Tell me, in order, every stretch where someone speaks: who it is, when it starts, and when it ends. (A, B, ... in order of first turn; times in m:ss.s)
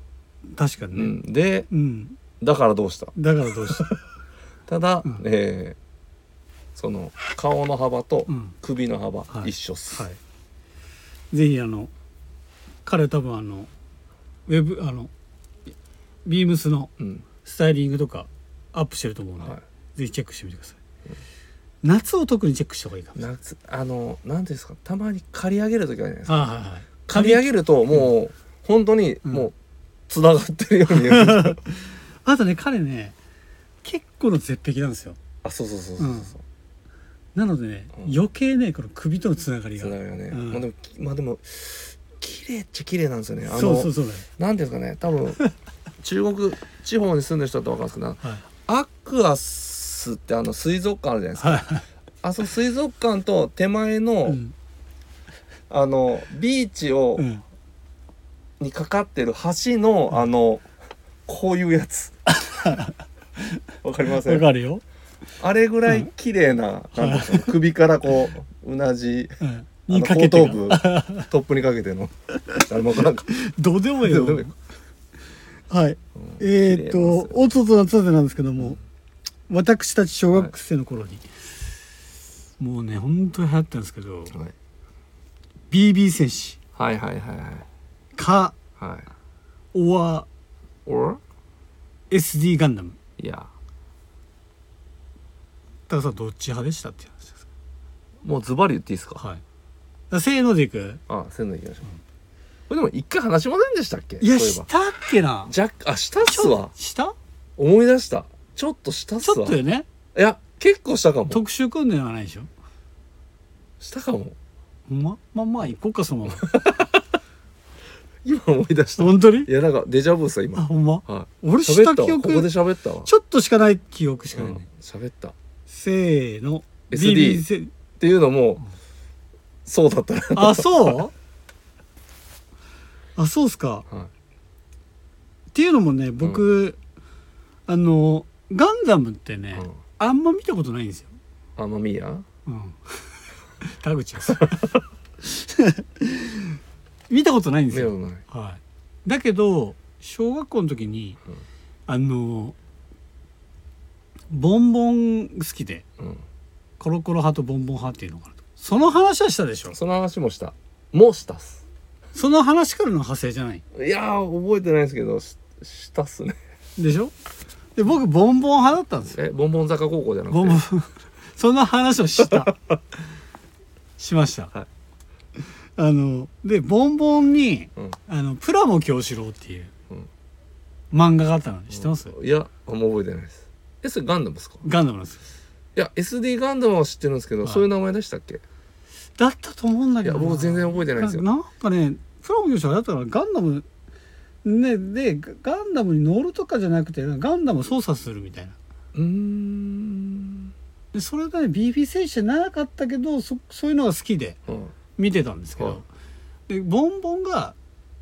0:00.5-0:01.2 A
0:00.9-0:01.7 B
0:01.7-0:02.2 A
0:02.4-0:03.2 B
0:03.2-0:04.0 A
0:04.7-0:05.8 B
0:06.8-0:10.1 B
0:08.3-0:08.5 A
0:09.3-0:10.2 A
0:11.3-0:11.9 A
0:12.8-0:13.7 A
0:14.5-0:15.1 A
0:16.2-0:16.9 A
0:17.0-0:17.3 B
0:17.4-0:20.8 A
0:21.8-0:23.2 A
0:23.2-0:26.5 B
0:26.3-0:27.5 A
0:27.1-0:29.5 B
0:30.1-0:31.6 B
0:30.9-0:33.2 A
0:33.8-0:35.2 A
0:35.4-0:36.4 B
0:36.0-0:36.3 A
0:37.4-0:40.6 A
0:39.8-0:45.4 B
0:43.5-0:44.3 A
0:46.0-0:51.7 B
0:51.4-0:51.8 A
0:52.2-0:54.4 B
0:54.3-0:54.5 A
0:55.7-0:57.3 B
0:57.2-0:57.4 A
0:58.6-1:00.7 B
1:01.3-1:02.2 B
1:02.3-1:03.6 A
1:03.8-1:04.5 B
1:04.1-1:04.8 A
1:05.4-1:13.3 B
1:07.0-1:07.6 A
1:09.4-1:11.3 A
1:13.3-1:14.5 A
1:14.0-1:14.5 B
1:15.7-1:18.8 A
1:16.2-1:17.4 B
1:19.5-1:21.4 A
1:22.6-1:24.4 A
1:25.7-1:26.6 A
1:26.8-1:27.7 B
1:28.2-1:28.6 A
1:28.8-1:29.1 B
1:29.7-1:30.3 A
1:30.9-1:31.2 B
1:32.1-1:33.0 A
1:33.2-1:33.5 B
1:35.9-1:37.5 A
1:38.2-1:39.2 B
1:40.1-1:41.0 A
1:41.1-1:41.9 B
1:42.7-1:44.7 B
1:44.2-1:45.5 A
1:45.5-1:46.7 B
1:46.2-1:47.2 A
1:47.6-1:49.6 B
1:49.2-1:49.9 A
1:50.2-1:51.4 B
1:51.3-1:52.5 A
1:53.8-1:54.4 B
1:54.9-1:56.6 A
1:56.3-1:57.0 B
1:58.2-2:03.1 B
1:59.0-1:59.5 A
2:00.6-2:02.5 A
2:03.0-2:04.7 A
2:04.3-2:05.4 B
2:05.7-2:07.7 A
2:06.9-2:07.4 B
2:08.0-2:08.6 B
2:09.7-2:11.0 B
2:10.4-2:11.1 A
2:13.2-2:13.9 A
2:15.5-2:16.8 A
2:16.2-2:16.4 B
2:17.7-2:21.1 A
2:21.6-2:22.3 B
2:22.5-2:24.7 A
2:24.3-2:24.6 B
2:25.2-2:26.6 A
2:27.1-2:31.2 A
2:27.7-2:28.2 B
2:31.9-2:32.6 A
2:34.3-2:35.8 A
2:36.8-2:39.8 A
2:39.7-2:41.6 B
2:42.2-2:43.6 A
2:43.7-2:46.4 B
2:46.8-2:47.1 A
2:47.8-2:49.2 A
2:49.1-2:50.6 B
2:50.3-2:52.6 A
2:54.0-2:54.5 A
2:55.8-2:59.7 A
3:00.9-3:02.2 A
3:01.7-3:04.6 B
3:04.6-3:05.2 A
3:05.8-3:08.4 B
3:09.2-3:13.7 A
3:10.0-3:11.3 B
3:14.4-3:18.6 A
3:18.9-3:20.5 B
3:20.9-3:24.4 A
3:24.5-3:24.7 B
3:25.0-3:25.9 A
3:26.5-3:27.6 A